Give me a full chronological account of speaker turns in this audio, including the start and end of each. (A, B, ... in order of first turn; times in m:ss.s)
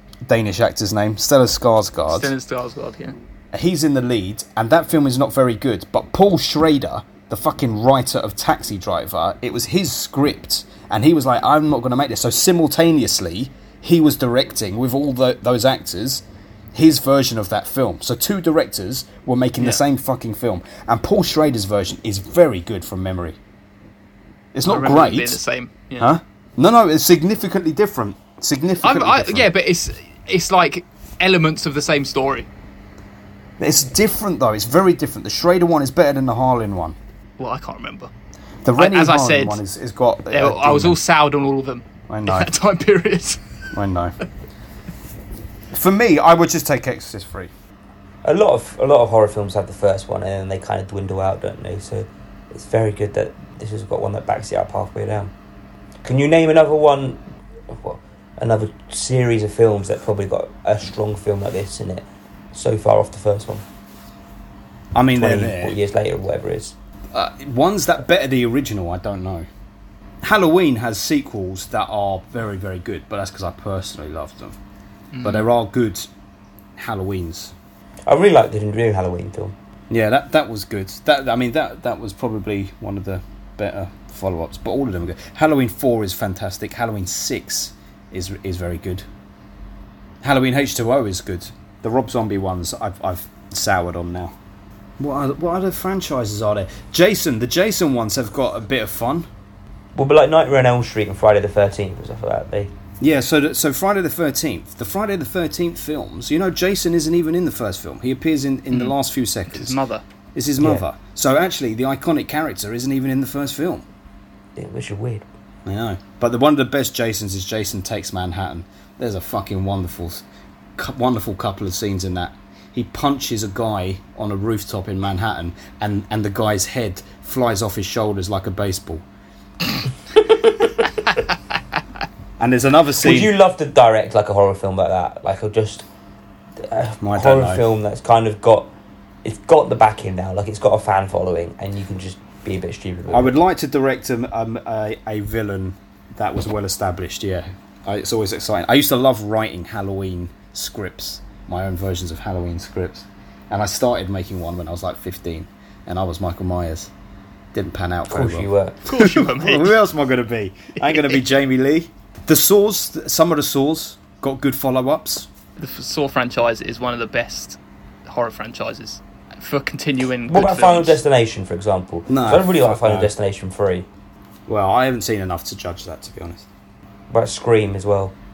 0:00.2-0:02.3 A
0:02.1-0:03.2 B
0:03.5-0:23.4 A
0:24.5-0:25.4 A
0:24.6-0:26.1 B
0:26.0-0:29.5 A
0:28.8-0:32.5 B
0:33.6-0:37.0 A
0:37.4-0:38.1 B
0:38.6-0:41.0 A
0:38.8-0:39.6 B
0:40.3-0:43.4 B
0:42.1-0:42.5 A
0:43.7-0:44.1 A
0:45.7-0:47.5 A
0:48.2-0:55.3 C
0:56.0-1:03.6 C
1:04.9-1:05.8 A
1:05.1-1:06.7 C
1:07.1-1:09.5 A
1:10.2-1:14.6 A
1:15.1-1:15.5 B
1:15.2-1:16.1 A
1:16.8-1:17.5 A
1:18.0-1:19.5 C
1:19.9-1:29.0 A
1:30.2-1:34.3 A
1:35.0-1:39.3 A
1:39.9-1:42.7 C
1:43.0-1:49.8 A
1:49.5-1:50.0 B
1:50.3-1:53.8 A
1:54.6-1:55.2 C
1:55.6-2:00.2 A
2:00.8-2:09.0 A
2:12.4-2:13.3 A
2:13.0-2:15.8 C
2:16.6-2:18.7 C
2:17.0-2:17.6 A
2:19.2-2:23.3 C
2:23.1-2:36.9 A
2:37.5-2:45.3 A
2:38.1-2:38.8 C
2:38.8-2:39.7 B
2:40.9-2:41.1 B
2:45.6-2:51.0 B
2:50.3-2:53.9 C
2:52.1-2:53.1 A
2:54.5-2:56.4 A
2:57.1-2:58.1 C